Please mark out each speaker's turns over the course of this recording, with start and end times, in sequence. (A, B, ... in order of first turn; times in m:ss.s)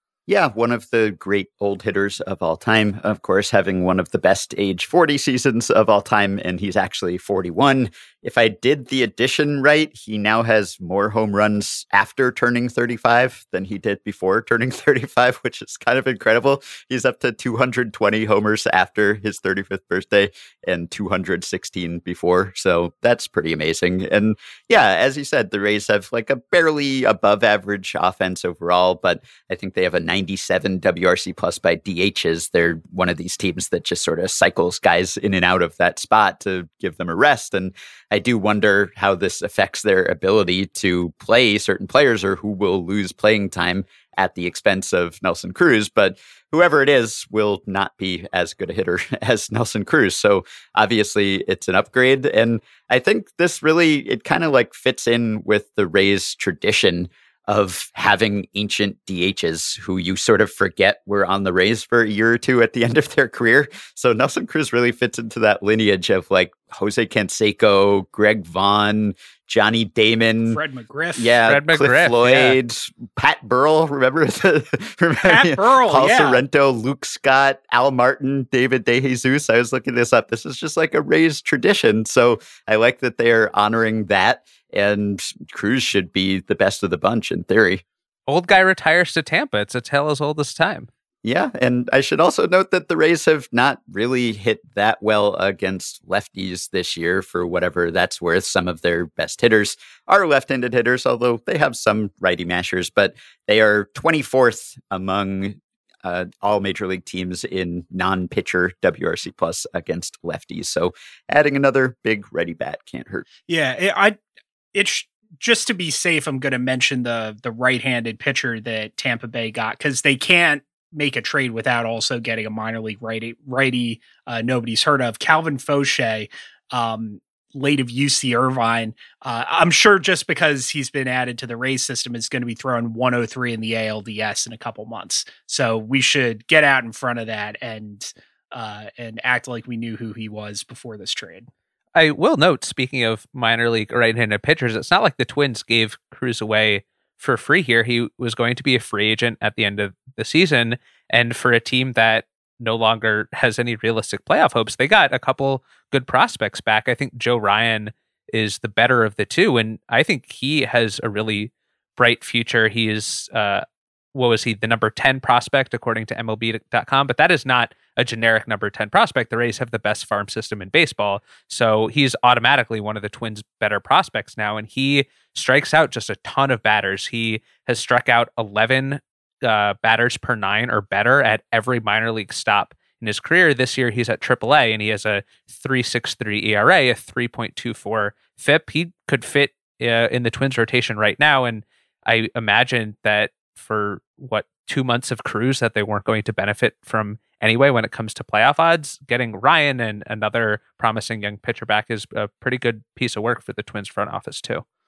0:00.3-1:10.6 A
1:10.5-1:11.4 B
1:11.2-1:27.8 A
1:11.5-1:12.6 C
1:15.2-1:16.4 B
1:28.3-1:30.9 C
1:31.2-1:53.2 A
1:53.5-1:54.2 B
1:54.7-2:21.5 B
2:21.9-3:24.6 C